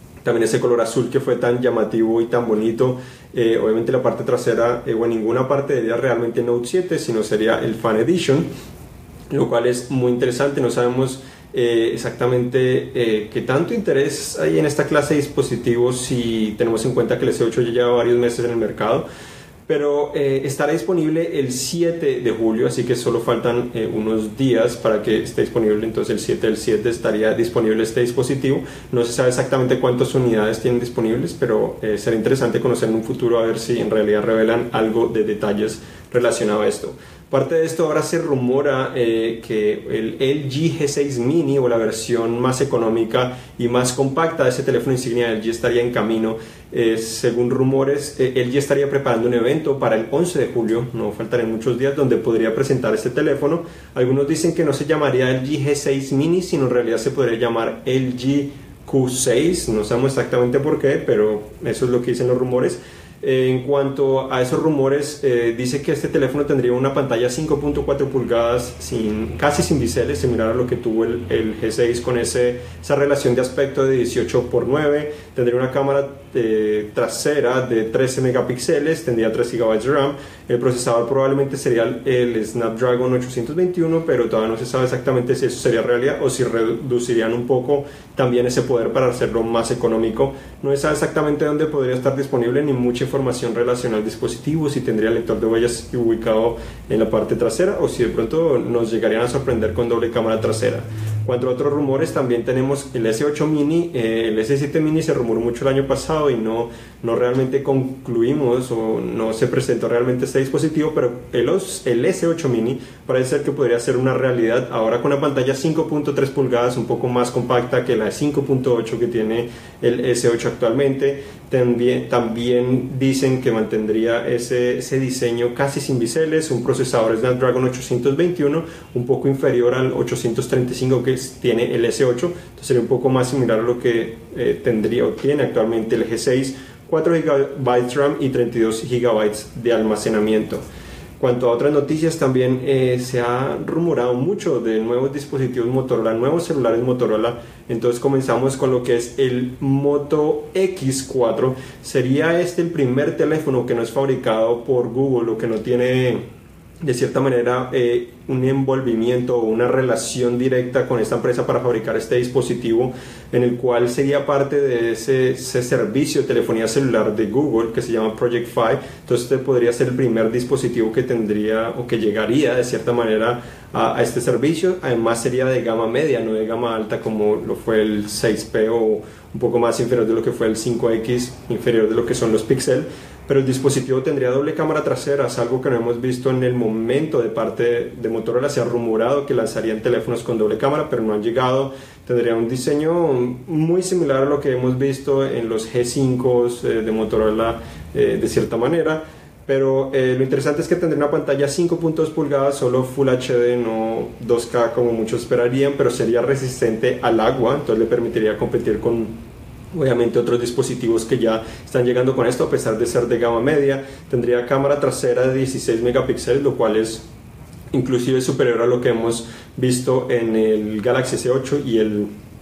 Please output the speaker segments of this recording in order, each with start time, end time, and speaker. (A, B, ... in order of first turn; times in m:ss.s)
0:00.2-0:08.5 A
0:09.3-0:19.1 A
0:19.7-2:20.6 A
2:21.2-2:36.2 A
2:36.8-3:29.2 A
3:29.7-3:37.1 A
3:37.7-3:42.1 A